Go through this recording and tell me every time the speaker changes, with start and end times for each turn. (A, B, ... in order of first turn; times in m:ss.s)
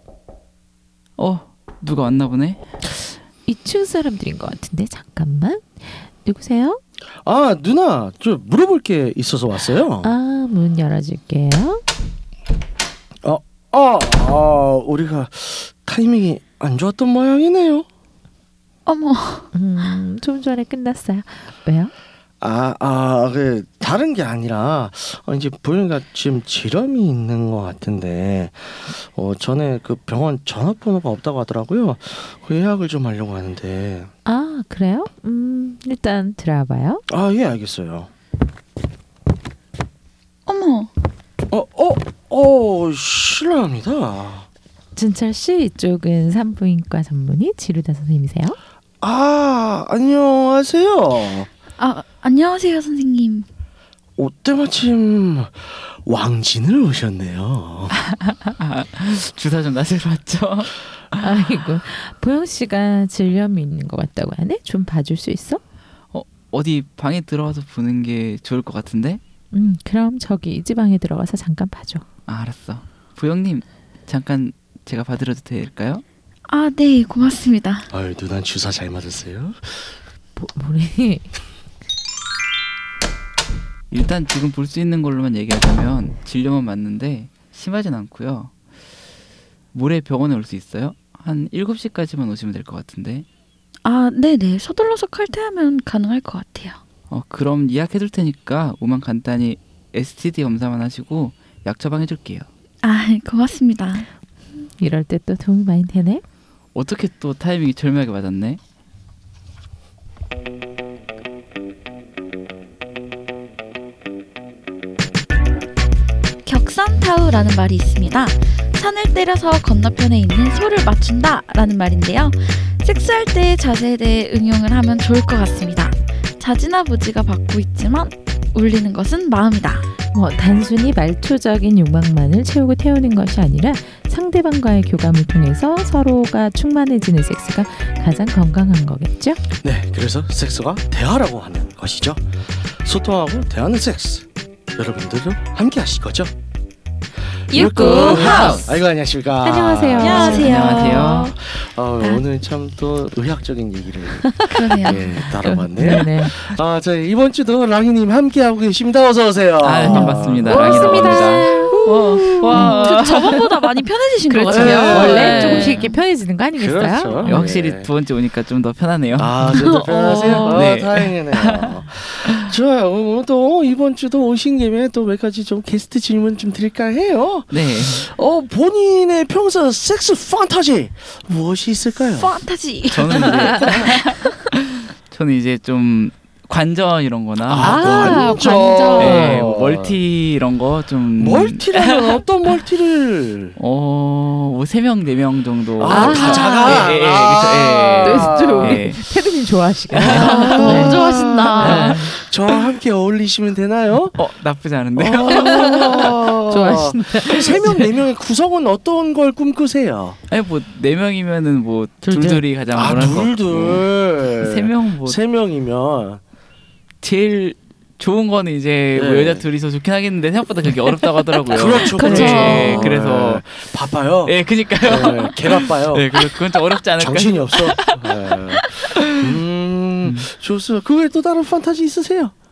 0:01.2-0:02.7 A
0:03.4-0:06.8 B
0:07.2-0:10.1 C
0:10.0-0:11.8 B
0:13.2-0:17.9 C
0:18.8-0:19.5 D
0:19.5-0:21.9 B
0:22.4-0:34.1 C
0:34.2-0:37.0 B
0:37.1-0:38.1 C
0:40.4-0:40.9 D
0:41.5-0:44.5 C
0:44.9-0:48.6 B
0:49.0-0:51.5 C
0:51.8-0:53.4 D
0:54.2-0:58.0 C
0:58.1-1:01.2 A
1:01.2-1:05.6 B
1:06.1-1:09.2 A
1:09.5-1:12.0 B
1:12.3-1:16.0 A
1:16.5-1:17.9 D
1:17.9-1:19.9 C
1:20.4-1:21.3 B
1:23.9-1:28.5 A
1:29.7-1:33.2 A
1:33.8-1:36.8 D
1:37.1-1:42.4 A
1:42.8-1:44.1 D
1:44.8-1:46.2 B
1:46.7-1:48.6 A
1:56.4-2:09.9 D
2:10.1-2:19.4 B
2:19.6-2:26.3 C
2:27.5-2:42.8 C
2:27.5-2:28.7 D
2:27.5-2:28.7 B
2:27.9-2:28.6 A
2:29.4-2:30.5 B
2:30.0-2:31.4 D
2:30.1-2:31.3 A
2:34.3-2:34.5 B
2:34.5-2:35.3 D
2:35.2-2:36.3 B
2:35.8-2:36.4 A
2:39.6-2:45.9 A
2:39.9-2:41.8 B
2:40.5-2:41.7 D
2:42.5-2:42.9 B
2:42.5-2:45.9 D
2:44.5-2:45.6 C
2:44.5-2:47.4 B
2:46.6-2:47.9 C
2:47.2-2:51.8 A
2:49.2-3:02.3 C
2:49.5-2:50.7 D
2:57.5-2:58.1 A
3:02.2-3:04.2 D
3:02.9-3:04.5 A
3:03.2-3:04.0 C
3:05.1-3:08.4 A
3:07.4-3:10.0 C
3:07.6-3:09.4 B
3:09.0-3:12.2 A
3:11.2-3:13.6 C
3:13.6-3:19.0 A
3:15.8-3:18.8 C
3:15.8-3:16.9 B
3:18.0-3:22.0 B
3:19.9-3:21.0 A
3:20.0-3:24.2 C
3:20.1-3:22.2 D
3:21.6-3:22.0 A
3:24.1-3:26.1 A
3:25.0-3:30.2 C
3:26.5-3:27.9 B
3:30.3-3:33.8 A
3:32.0-3:32.4 B
3:32.7-3:36.2 C
3:34.4-3:35.2 A
3:37.0-3:43.7 A
3:38.9-3:39.5 C
3:41.5-3:52.3 C
3:41.9-3:42.9 D
3:41.9-3:42.6 B
3:44.2-3:49.4 A